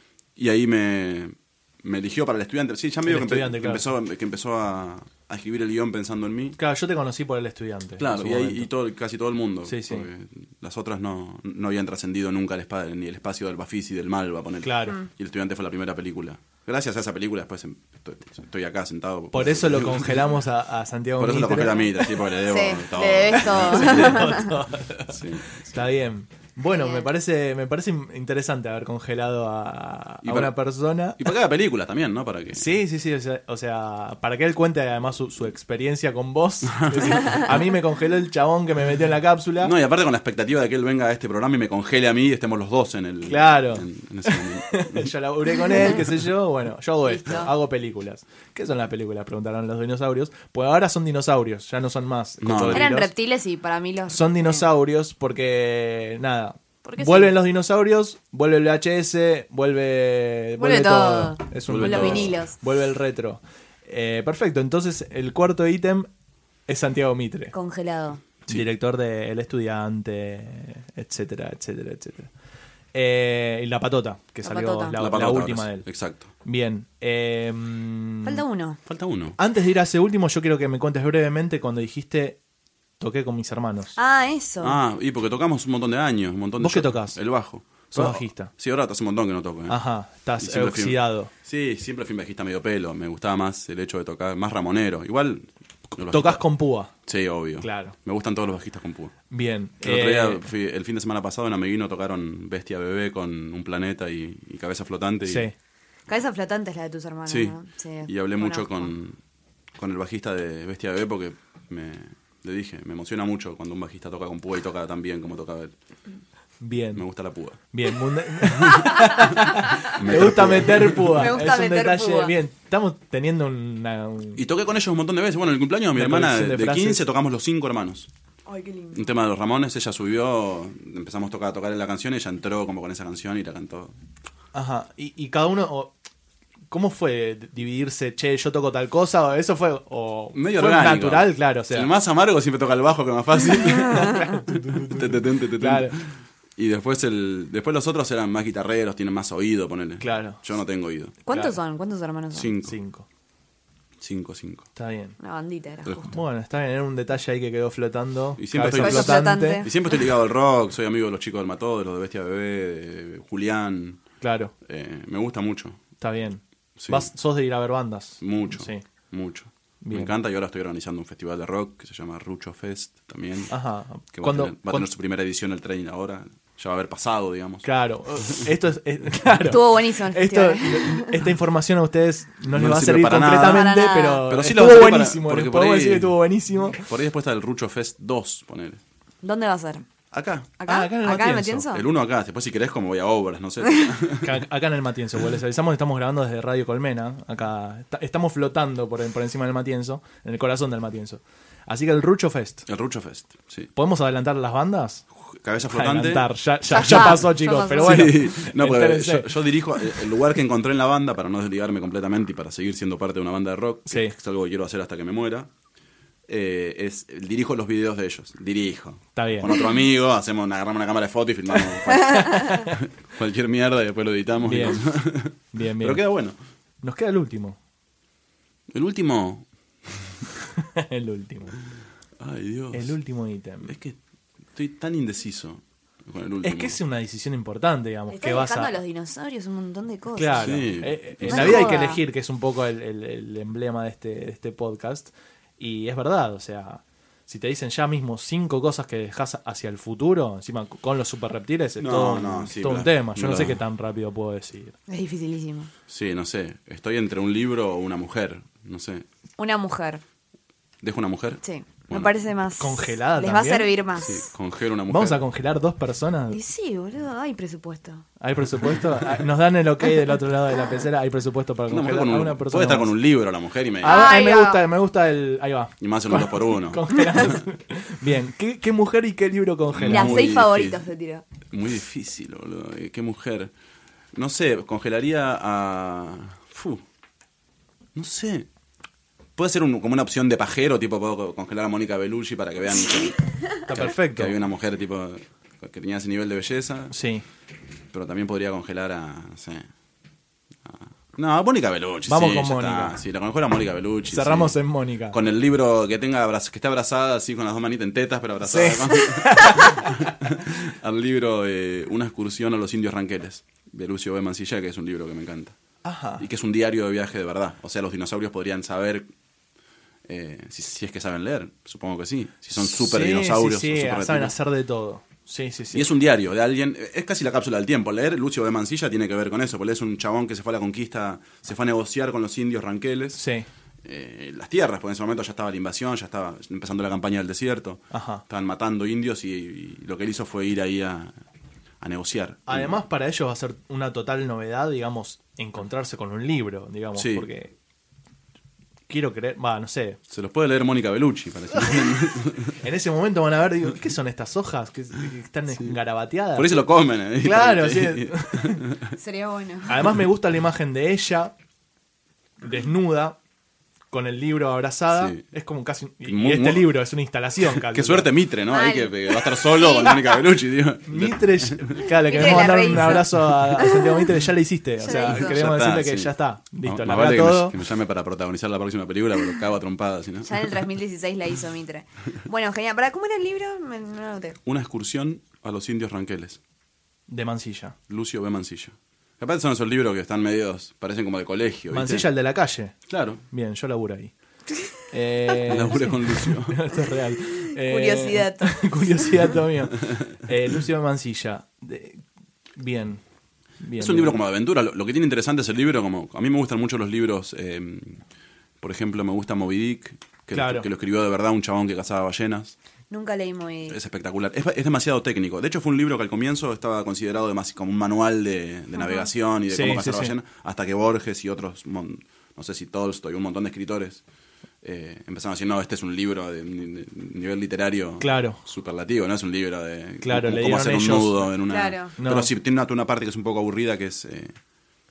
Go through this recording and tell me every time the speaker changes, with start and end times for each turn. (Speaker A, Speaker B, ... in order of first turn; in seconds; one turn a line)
Speaker A: 0.4-6.6
Speaker B: 3.1-3.9
Speaker B: 6.6-8.7
Speaker A: 8.0-20.3
Speaker B: 9.7-10.1
Speaker B: 14.6-15.0
Speaker B: 19.3-21.8
Speaker A: 21.2-25.8
Speaker C: 22.4-24.5
Speaker B: 23.4-31.2
Speaker C: 26.7-27.1
Speaker A: 30.2-30.6
Speaker A: 31.2-32.8
Speaker B: 32.5-39.7
Speaker A: 36.7-37.5
Speaker A: 39.6-45.1
Speaker B: 43.2-53.1
Speaker C: 47.0-47.5
Speaker A: 52.4-52.9
Speaker C: 52.7-54.6
Speaker B: 54.1-66.1
Speaker C: 56.8-57.3
Speaker C: 60.6-62.6
Speaker A: 61.7-62.4
Speaker B: 66.7-67.5
Speaker C: 67.5-68.2
Speaker B: 68.5-72.3
Speaker B: 72.9-75.9
Speaker C: 74.4-75.0
Speaker A: 75.0-76.3
Speaker B: 76.4-78.4
Speaker C: 78.2-78.8
Speaker A: 78.9-79.4
Speaker B: 79.4-82.4
Speaker B: 83.0-84.0
Speaker C: 84.0-84.8
Speaker A: 84.6-89.8
Speaker B: 86.6-87.2
Speaker B: 87.9-88.5
Speaker B: 89.7-91.3
Speaker A: 90.4-96.5
Speaker B: 96.1-96.9
Speaker A: 97.0-99.2
Speaker B: 97.6-98.0
Speaker B: 99.3-100.4
Speaker A: 99.8-105.5
Speaker B: 105.3-105.5
Speaker C: 106.1-108.9
Speaker A: 107.3-107.5
Speaker A: 108.1-109.2
Speaker A: 109.8-115.7
Speaker B: 116.6-117.0
Speaker A: 117.0-117.6
Speaker B: 117.7-124.4
Speaker A: 118.6-121.3
Speaker C: 121.2-122.3
Speaker A: 124.4-128.1
Speaker B: 126.0-127.0
Speaker C: 128.5-129.1
Speaker A: 128.9-133.9
Speaker B: 134.5-136.0
Speaker B: 136.7-141.9
Speaker A: 140.3-151.2
Speaker B: 143.9-145.9
Speaker B: 150.0-150.4
Speaker C: 151.2-152.5
Speaker A: 152.3-152.8
Speaker B: 152.6-153.1
Speaker A: 154.0-154.7
Speaker B: 154.8-155.2
Speaker C: 155.2-156.1
Speaker A: 155.8-156.1
Speaker B: 156.1-159.6
Speaker A: 158.4-164.0
Speaker C: 158.8-160.1
Speaker B: 164.2-164.5
Speaker A: 164.6-165.8
Speaker B: 166.0-168.8
Speaker A: 166.8-167.1
Speaker A: 168.2-173.6
Speaker B: 169.8-170.1
Speaker B: 173.5-174.9
Speaker A: 174.1-177.7
Speaker B: 177.6-186.8
Speaker C: 179.5-181.1
Speaker A: 182.5-183.7
Speaker C: 183.5-184.3
Speaker A: 184.3-186.2
Speaker A: 186.8-188.8
Speaker C: 189.2-189.9
Speaker A: 190.1-190.5
Speaker C: 190.6-191.8
Speaker B: 190.6-191.6
Speaker A: 191.7-194.4
Speaker B: 194.2-202.6
Speaker A: 202.7-203.7
Speaker B: 203.8-205.1
Speaker A: 205.3-206.3
Speaker B: 205.7-209.3
Speaker C: 206.7-208.2
Speaker A: 206.8-215.5
Speaker B: 213.9-214.1
Speaker A: 216.3-226.4
Speaker B: 219.1-219.5
Speaker B: 222.3-222.7
Speaker B: 224.4-224.9
Speaker B: 225.4-226.0
Speaker B: 226.8-227.6
Speaker A: 228.7-230.1
Speaker B: 230.8-231.5
Speaker A: 232.2-233.0
Speaker B: 232.7-233.7
Speaker A: 233.6-234.0
Speaker A: 234.5-236.8
Speaker B: 236.4-238.7
Speaker C: 238.1-242.0
Speaker B: 240.2-254.8
Speaker A: 240.4-241.7
Speaker A: 251.8-253.6
Speaker C: 254.9-255.7
Speaker A: 255.9-259.1
Speaker C: 259.4-260.0
Speaker A: 260.8-262.1
Speaker C: 261.4-264.3
Speaker B: 262.6-263.7
Speaker A: 264.0-265.2
Speaker B: 264.9-266.4
Speaker C: 266.3-268.0
Speaker B: 268.2-272.9
Speaker A: 271.7-274.0
Speaker B: 273.8-280.4
Speaker C: 273.8-274.6
Speaker A: 275.8-277.3
Speaker A: 279.7-280.8
Speaker C: 279.9-281.2
Speaker A: 281.5-283.5
Speaker A: 284.1-286.8
Speaker A: 288.0-288.5
Speaker A: 289.4-293.2
Speaker B: 293.7-294.4
Speaker A: 293.7-296.9
Speaker B: 296.9-297.2
Speaker A: 297.9-299.7
Speaker A: 300.6-315.6
Speaker B: 302.1-303.0
Speaker B: 304.1-305.2
Speaker B: 308.4-309.9
Speaker B: 315.8-316.2
Speaker A: 316.2-319.1
Speaker A: 320.1-324.3
Speaker B: 322.6-325.9
Speaker A: 325.7-333.2
Speaker B: 333.1-333.5
Speaker A: 333.9-341.1
Speaker B: 337.9-338.2
Speaker A: 341.8-342.8
Speaker B: 342.5-347.5
Speaker A: 347.0-347.3
Speaker B: 348.9-350.0
Speaker A: 350.1-352.5
Speaker B: 351.5-352.0
Speaker B: 352.6-358.6
Speaker A: 356.4-358.9
Speaker C: 359.0-359.8
Speaker B: 359.7-361.3
Speaker B: 362.4-363.2
Speaker B: 363.9-368.1
Speaker A: 364.9-365.2
Speaker A: 366.1-366.7
Speaker A: 367.7-371.8
Speaker C: 368.5-370.2
Speaker B: 370.9-377.6
Speaker C: 372.1-374.0
Speaker C: 374.8-375.4
Speaker A: 374.9-380.5
Speaker C: 380.2-384.4
Speaker A: 384.4-386.4
Speaker B: 387.1-387.8
Speaker A: 387.9-392.1
Speaker B: 391.7-394.1
Speaker A: 392.9-393.2
Speaker B: 394.9-402.0
Speaker A: 395.4-396.6
Speaker C: 397.6-398.8
Speaker B: 402.6-403.0
Speaker B: 403.6-404.2
Speaker A: 403.8-408.0
Speaker A: 408.6-412.6
Speaker B: 410.3-410.7
Speaker C: 412.9-413.8
Speaker A: 413.7-424.0
Speaker C: 418.8-419.1
Speaker B: 419.5-420.1
Speaker A: 424.6-434.4
Speaker B: 428.0-428.4
Speaker B: 430.0-431.3
Speaker C: 431.5-431.9
Speaker B: 432.0-432.3